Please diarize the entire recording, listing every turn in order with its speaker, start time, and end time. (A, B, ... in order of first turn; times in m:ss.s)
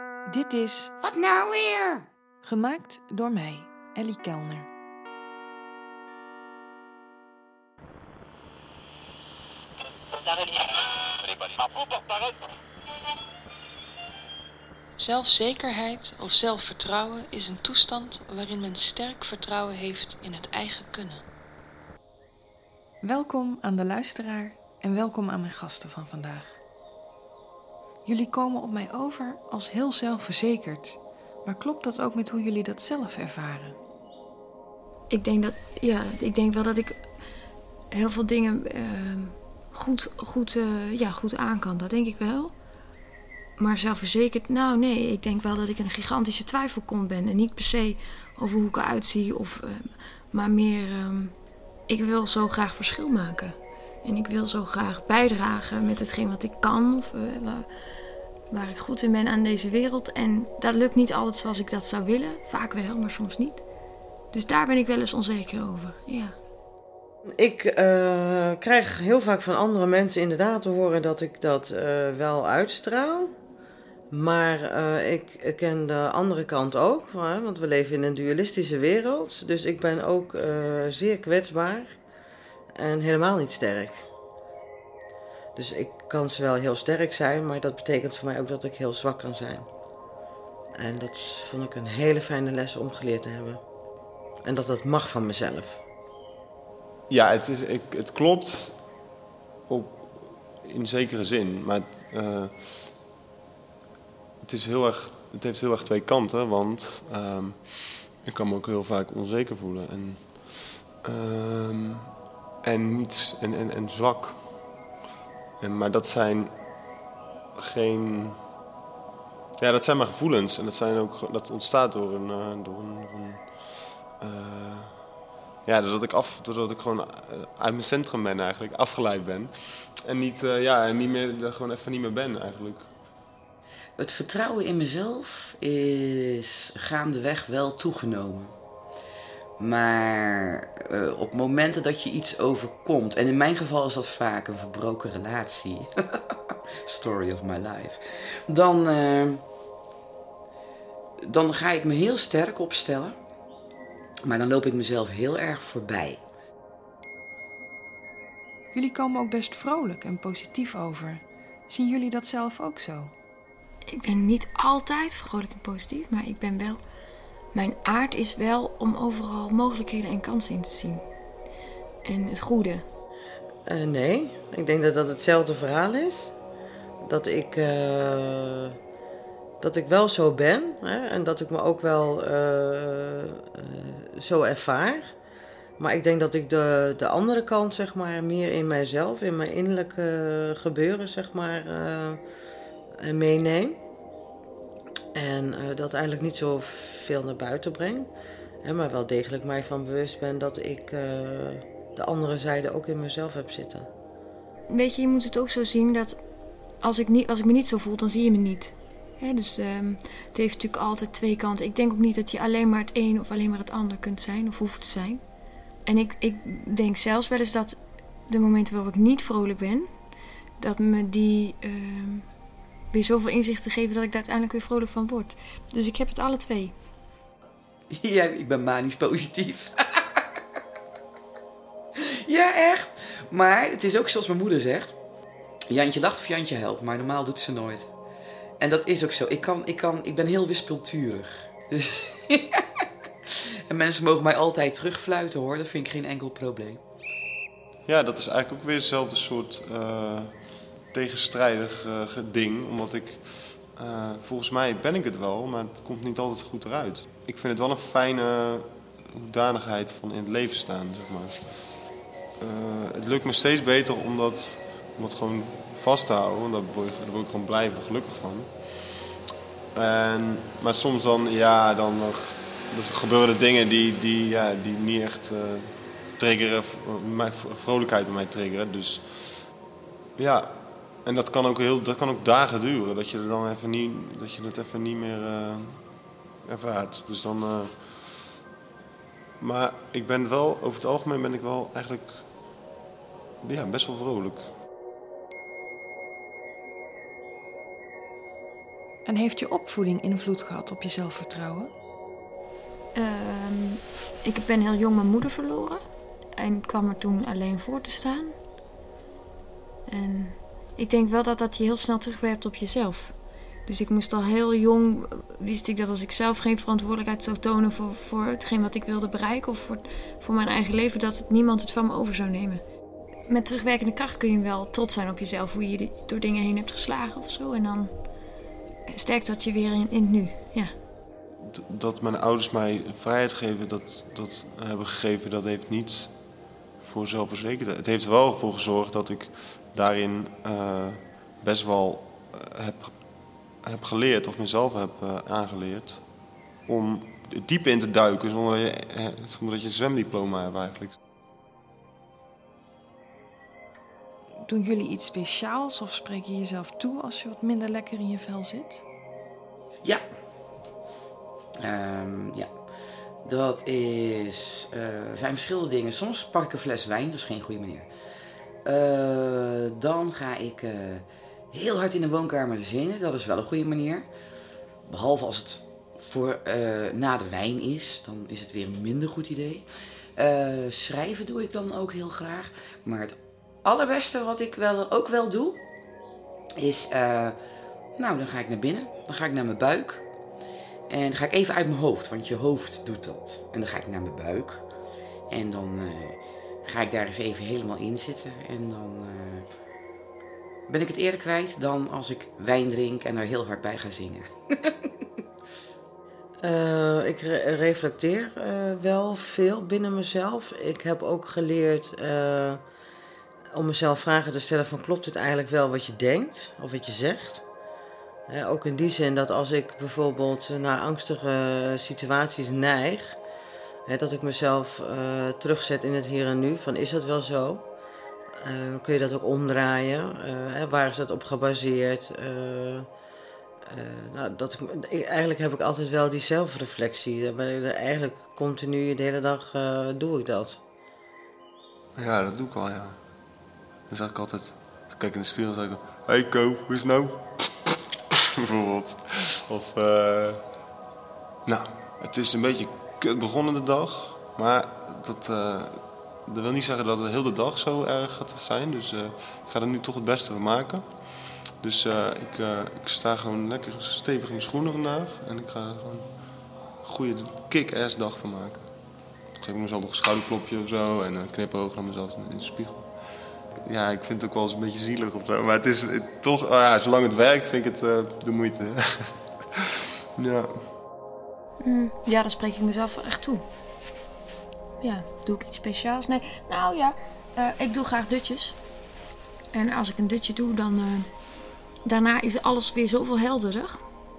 0:00.2-0:00.9 A
0:01.0-0:02.0 B
0:02.4-0:04.7 A
0:15.0-0:21.2 A
0:23.0-0:26.6 A
0:28.0-0:33.8 A
0:35.1-0:37.0 C
0:37.9-0:42.5 C
0:43.6-0:51.3 C
0:51.9-0:57.7 C
0:58.5-1:03.6 C
1:04.3-1:06.3 C
1:07.4-1:13.3 D
1:14.1-1:22.0 D
1:22.8-1:24.0 D
1:25.6-1:29.7 D
1:30.8-1:33.6 D
1:34.4-1:35.8 D
1:37.1-1:38.8 E
1:39.7-1:42.9 E
1:44.4-1:52.1 E
1:52.6-1:54.5 E
1:55.6-1:56.6 E
1:57.6-1:58.4 E
1:59.6-2:05.1 E
2:05.6-2:12.9 E
2:14.0-2:18.5 B
2:19.6-2:29.4 B
2:31.2-2:33.2 B
2:34.2-2:36.2 B
2:38.7-2:43.1 A
2:43.9-2:46.8 C
2:47.5-2:51.0 C
2:52.0-2:52.8 C
2:53.7-2:56.3 D
2:57.0-2:58.7 D
2:59.6-3:05.1 D
3:05.8-3:12.2 D
3:13.0-3:13.8 D
3:15.1-3:18.1 D
3:18.6-3:23.9 D
3:24.7-3:26.2 C
3:26.8-3:35.2 C
3:35.8-3:39.9 C
3:40.6-3:42.3 C
3:42.9-3:46.7 C
3:47.9-3:50.2 B
3:52.0-3:54.9 B
3:55.7-3:57.9 B
3:58.6-4:02.6 B
4:03.3-4:06.8 B
4:07.9-4:29.1 E
4:29.7-4:39.5 E
4:40.2-4:45.9 E
4:46.4-4:48.2 E
4:49.4-4:52.3 E
4:53.4-4:54.5 E
4:59.0-5:01.7 A
5:02.9-5:05.8 C
5:06.3-5:08.4 C
5:09.9-5:22.6 C
5:23.3-5:27.9 C
5:28.9-5:30.7 C
5:31.4-5:36.2 E
5:36.8-5:46.1 E
5:46.6-5:51.0 E
5:54.4-5:58.8 A
6:01.6-6:02.5 B
6:03.2-6:07.9 B
6:08.6-6:14.1 B
6:14.8-6:19.6 B
6:20.2-6:25.6 B
6:26.6-6:27.4 B
6:28.0-6:30.0 B
6:30.9-6:34.6 B
6:35.3-6:39.4 B
6:40.7-6:44.9 B
6:46.4-6:52.6 D
6:53.5-6:57.4 D
6:58.3-7:03.2 D
7:03.9-7:07.6 D
7:08.4-7:12.9 D
7:13.7-7:20.6 D
7:22.0-7:23.0 E
7:23.9-7:27.8 E
7:28.4-7:30.5 E
7:31.4-7:46.2 E
7:46.8-7:48.7 E
7:49.3-7:52.9 E
7:53.6-8:00.5 E
8:01.6-8:03.4 C
8:04.8-8:08.6 C
8:09.5-8:11.1 C
8:11.8-8:13.8 C